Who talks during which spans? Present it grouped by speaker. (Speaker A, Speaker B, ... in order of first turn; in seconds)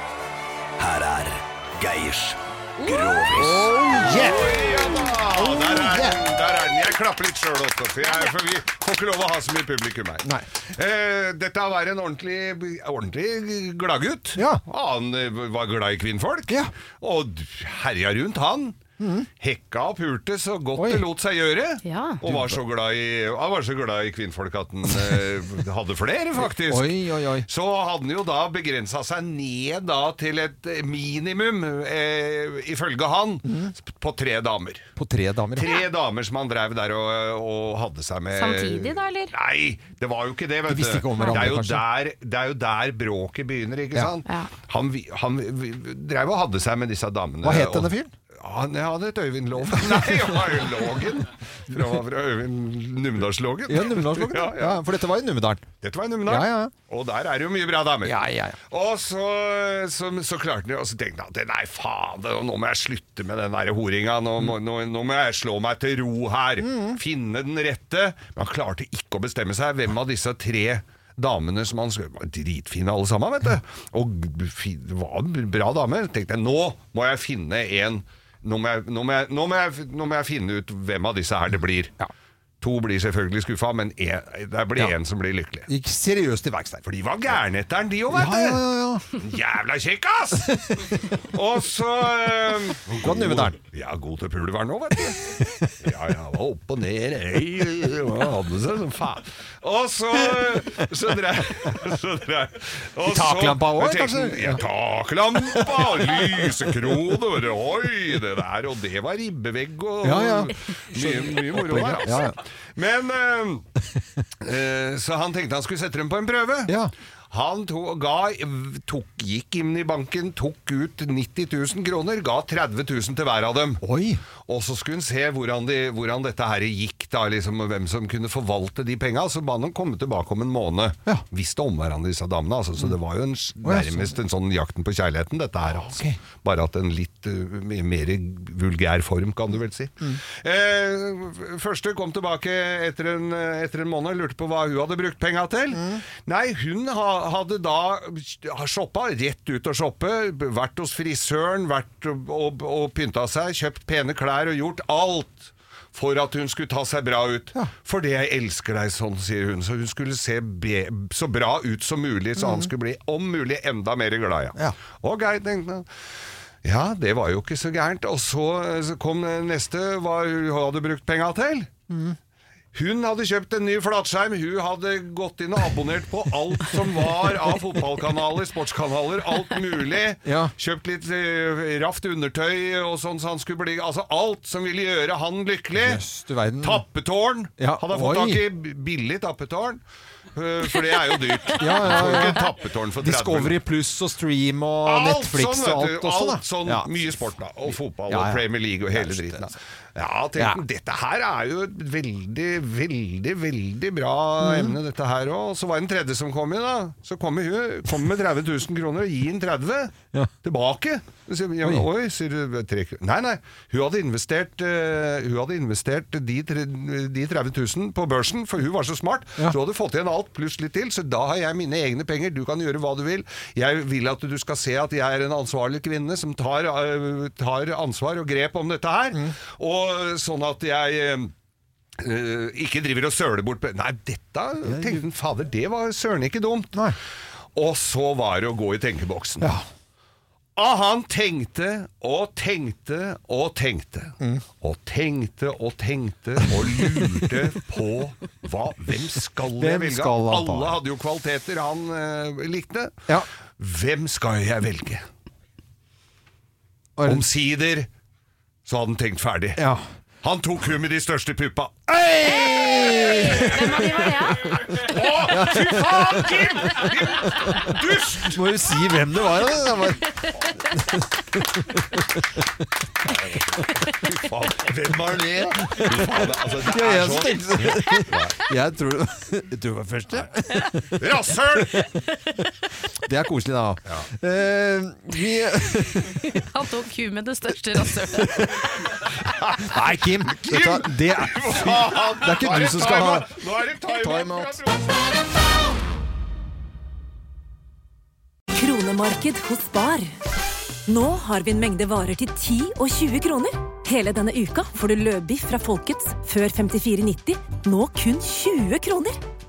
Speaker A: 0.8-3.8
Speaker B: 2.8-3.2, 8.1-8.3, 21.8-22.2, 35.6-35.9, 38.3-39.3, 44.3-44.5, 262.6-264.7, 286.0-288.9
Speaker C: 3.4-6.2, 14.4-14.6, 19.0-19.3, 20.8-21.0, 22.2-22.6, 26.4-27.5, 33.5-33.7, 35.0-35.7, 40.7-41.8, 47.4-48.1, 49.7-50.2, 53.7-55.7, 56.3-56.7, 58.0-58.6, 66.6-67.0, 85.7-86.8, 88.1-89.0, 93.0-93.6, 103.0-104.6, 105.5-106.7, 110.0-112.4, 116.7-116.9, 123.8-124.2, 133.6-134.1, 135.9-136.2, 145.7-146.0, 162.4-162.7, 171.9-172.2, 180.2-180.5, 185.8-186.8, 187.6-188.4, 191.6-196.9, 198.1-199.6, 200.4-200.6, 204.4-204.8, 234.7-235.0, 239.4-239.7, 246.5-247.2, 249.5-250.8, 257.0-257.3, 259.6-259.8, 261.9-263.9, 265.3-272.2, 275.7-282.0, 283.0-286.4, 288.0-288.7, 289.6-293.3, 293.9-294.6
Speaker D: 3.9-18.8, 19.4-34.9, 35.6-54.8, 55.8-82.0, 82.6-85.7, 86.8-88.6, 89.1-113.7, 114.4-116.8, 117.3-123.8, 124.5-165.9, 166.6-171.7, 172.7-186.0, 186.6-189.8, 190.3-193.6, 194.9-231.3, 232.0-236.9, 237.6-239.5, 240.6-255.1, 257.1-257.9, 258.7-259.6, 260.2-263.6, 264.4-268.5, 273.1-278.4, 281.0-281.9, 289.2-295.1
Speaker E: 298.6-300.1, 300.9-309.2